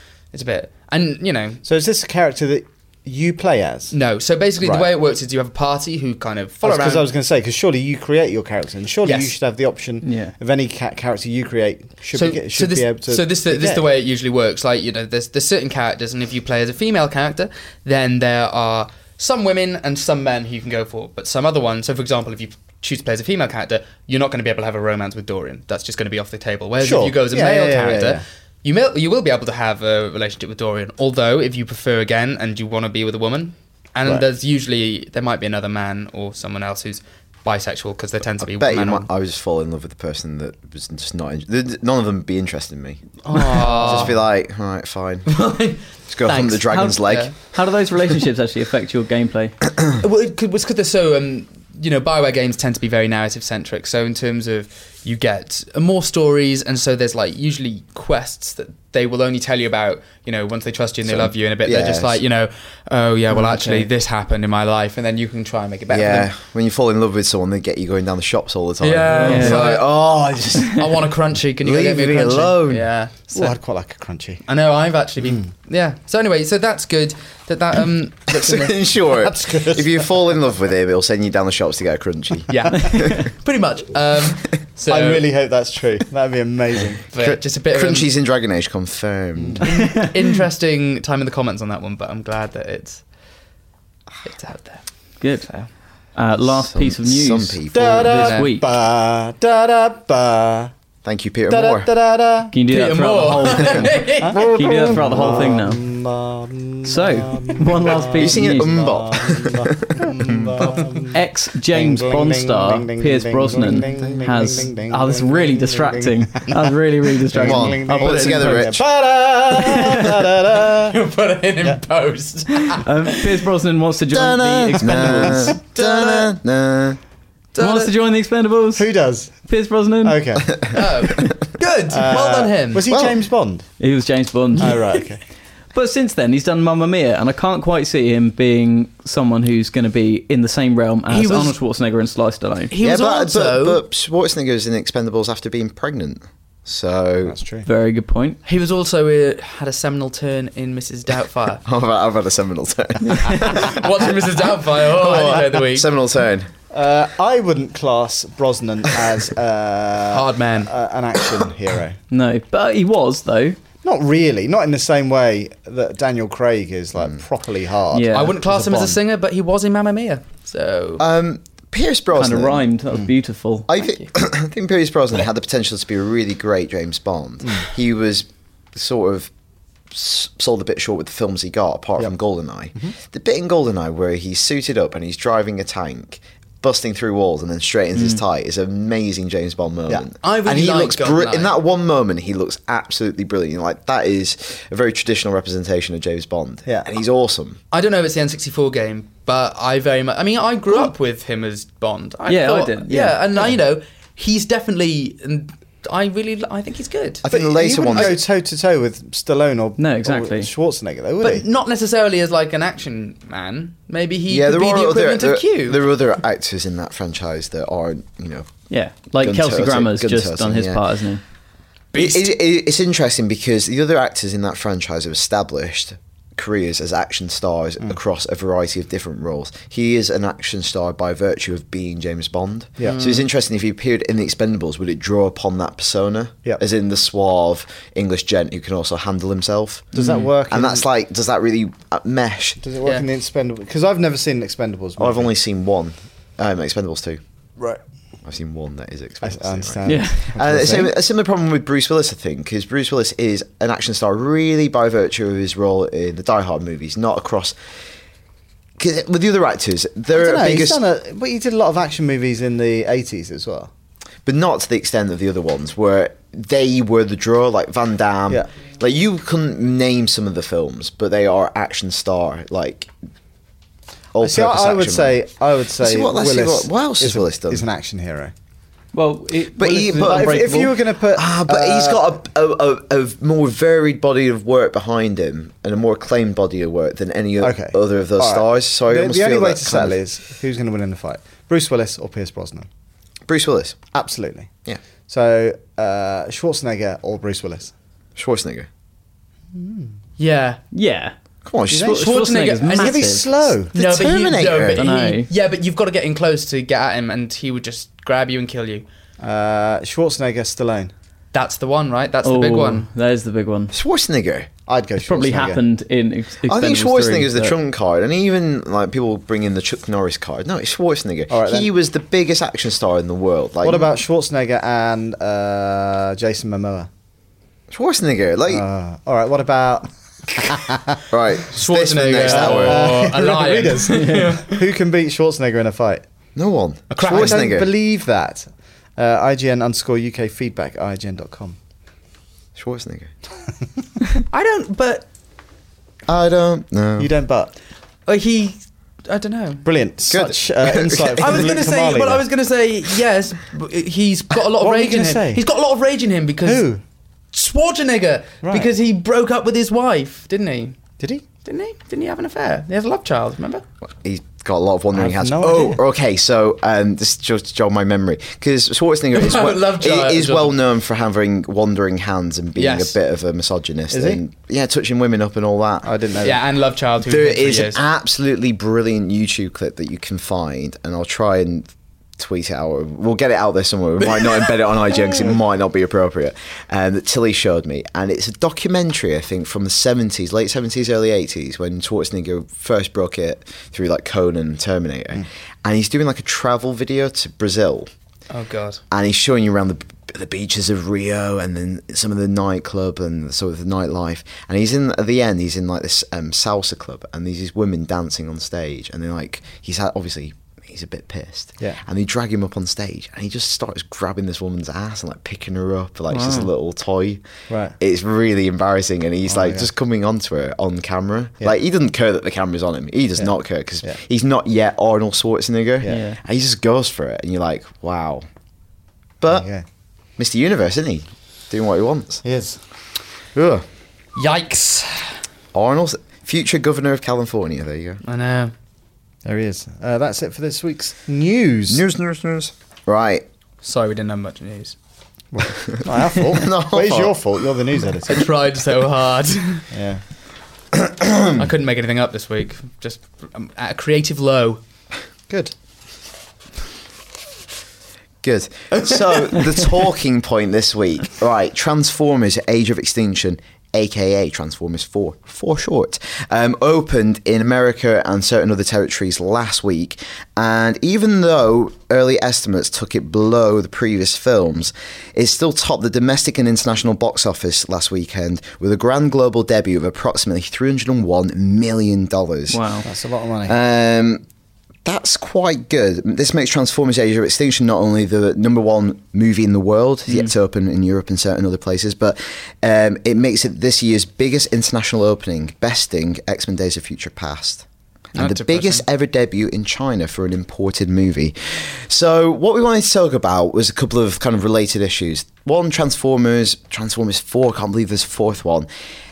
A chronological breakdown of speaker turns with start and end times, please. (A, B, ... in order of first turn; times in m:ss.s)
0:00.3-0:01.6 A
0:01.6-0:03.9 B
0:03.9-0:07.1 A
0:04.6-0:04.9 B
0:06.6-0:13.8 B
0:09.0-0:09.3 A
0:10.0-0:10.3 C
0:12.1-0:39.1 A
0:26.8-0:28.2 B
0:38.4-0:43.0 D
0:43.2-0:44.2 A
0:43.6-0:45.3 D
0:45.3-0:47.3 A
0:46.1-0:47.3 D
0:46.6-0:49.6 C
0:50.0-1:06.3 A
1:01.0-1:02.2 D
1:05.9-1:10.8 D
1:08.8-1:10.0 A
1:09.2-1:09.8 C
1:10.7-1:13.6 A
1:11.6-1:12.9 D
1:13.3-1:14.4 B
1:14.5-1:18.8 A
1:15.2-1:15.5 B
1:18.3-1:23.0 D
1:19.2-1:20.1 B
1:22.5-1:25.3 A
1:22.9-1:23.2 C
1:24.9-1:27.0 B
1:27.1-1:28.1 A
1:27.2-1:29.7 D
1:29.4-1:29.7 B
1:29.7-1:33.0 A
1:34.2-1:34.8 A
1:35.2-1:38.7 C
1:36.4-1:38.1 D
1:37.7-1:40.7 B
1:38.1-1:38.5 A
1:41.0-1:41.9 D
1:41.5-1:42.6 B
1:42.5-1:45.8 C
1:42.7-1:44.4 A
1:44.2-1:51.2 B
1:44.8-1:45.3 D
1:46.9-1:48.9 C
1:48.2-1:50.5 D
1:51.1-1:58.5 C
1:51.7-2:01.0 B
1:57.4-1:58.8 D
2:00.9-2:03.4 A
2:02.7-2:05.6 C
2:04.1-2:07.0 D
2:05.8-2:06.4 A
2:07.5-2:07.9 A
2:07.6-2:08.9 C
2:08.8-2:09.5 B
2:09.4-2:10.6 C
2:10.0-2:10.6 B
2:10.7-2:12.9 A
2:11.9-2:13.7 B
2:12.9-2:13.2 D
2:13.8-2:15.0 C
2:14.6-2:15.2 B
2:15.7-2:22.7 C
2:21.1-2:21.6 A
2:22.7-2:23.8 A
2:22.8-2:27.4 D
2:27.2-2:27.7 B
2:27.6-2:28.4 C
2:28.4-2:31.6 A
2:31.6-2:33.8 D
2:33.4-2:35.9 A
2:35.4-2:36.5 D
2:36.7-2:42.0 B
2:40.1-2:40.7 A
2:42.1-2:43.6 C
2:43.8-2:49.0 B
2:47.9-2:48.4 C
2:48.1-2:51.0 A
2:51.0-2:52.6 D
2:52.2-2:53.7 C
2:53.7-2:59.3 D
2:53.8-2:54.1 A
2:59.9-3:17.6 D
3:10.2-3:11.6 A
3:17.7-3:27.2 A
3:22.3-3:23.2 C
3:27.2-3:28.2 D
3:27.3-3:31.5 B
3:29.8-3:30.5 C
3:31.2-3:35.8 A
3:34.3-3:38.5 D
3:38.7-3:41.2 C
3:39.2-3:40.8 D
3:41.9-3:42.3 A
3:42.0-3:59.9 D
3:52.8-3:53.2 A
3:59.9-4:00.8 B
4:00.5-4:02.6 D
4:02.6-4:05.3 B
4:05.0-4:07.2 D
4:08.2-4:17.6 D
4:09.2-4:10.9 B
4:09.9-4:10.3 C
4:18.8-4:20.8 D
4:20.1-4:23.7 B
4:24.2-4:32.9 D
4:34.1-4:35.2 D
4:34.2-4:38.3 B
4:35.8-4:37.6 D
4:38.9-4:40.7 C
4:39.6-4:50.0 D
4:39.9-4:42.2 B
4:47.4-4:52.7 B
4:53.3-4:53.8 D
4:53.9-4:54.6 B
4:55.1-4:57.7 B
4:58.2-4:58.7 D
4:59.5-4:59.9 B
5:00.2-5:00.6 A
5:00.7-5:01.1 C
5:01.4-5:02.1 D
5:01.8-5:03.5 C
5:01.8-5:03.2 A
5:02.7-5:03.7 B
5:03.7-5:08.9 A
5:03.8-5:04.8 D
5:04.8-5:05.3 C
5:09.2-5:10.9 B
5:11.3-5:12.9 A
5:12.2-5:13.7 C
5:13.7-5:14.5 D
5:14.7-5:15.6 B
5:15.0-5:17.6 C
5:16.4-5:23.9 D
5:21.3-5:21.7 B
5:23.6-5:26.9 B
5:27.7-5:28.6 D
5:28.5-5:31.0 B
5:31.1-5:32.8 D
5:31.5-5:34.6 A
5:32.2-5:36.0 B
5:33.9-5:34.4 C
5:36.4-5:37.7 D
5:36.9-5:37.5 A
5:37.1-5:41.6 B
5:42.6-5:43.1 D
5:44.3-5:45.1 A
5:46.1-5:47.1 D
5:47.0-5:47.5 B
5:48.1-5:49.6 A
5:49.6-5:52.2 B
5:50.1-5:51.3 D
5:51.2-5:56.7 A
5:54.6-5:55.4 B
5:56.4-5:56.8 B
5:57.3-6:00.8 A
5:58.4-5:58.7 B
6:01.4-6:03.6 A
6:03.8-6:15.9 D
6:04.9-6:05.8 B
6:09.1-6:10.6 A
6:12.6-6:13.0 A
6:13.9-6:14.2 B
6:15.8-6:16.4 B
6:16.2-6:17.8 A
6:17.0-6:37.9 D
6:38.3-6:38.8 A
6:38.9-6:57.2 D
6:56.1-6:56.5 C
6:57.5-6:57.8 B
6:57.8-7:08.2 D
6:59.3-6:59.7 B
7:05.9-7:06.2 C
7:09.2-7:09.5 D
7:09.3-7:09.6 B
7:10.2-7:12.2 D
7:12.2-7:12.6 B
7:13.4-7:13.6 D
7:14.2-7:15.2 A
7:15.5-7:18.0 D
7:18.0-7:18.5 A
7:19.2-7:21.8 B
7:21.7-7:23.2 D
7:23.6-7:24.8 A
7:25.3-7:28.2 B
7:25.7-7:27.2 D
7:28.1-7:29.7 A
7:29.7-7:30.0 B
7:30.8-7:31.4 D
7:31.4-7:34.6 A
7:38.2-8:02.6 D
8:02.5-8:02.9 C
8:02.8-8:03.6 B
8:03.5-8:04.2 D
8:04.8-8:28.7 D
8:18.2-8:18.8 A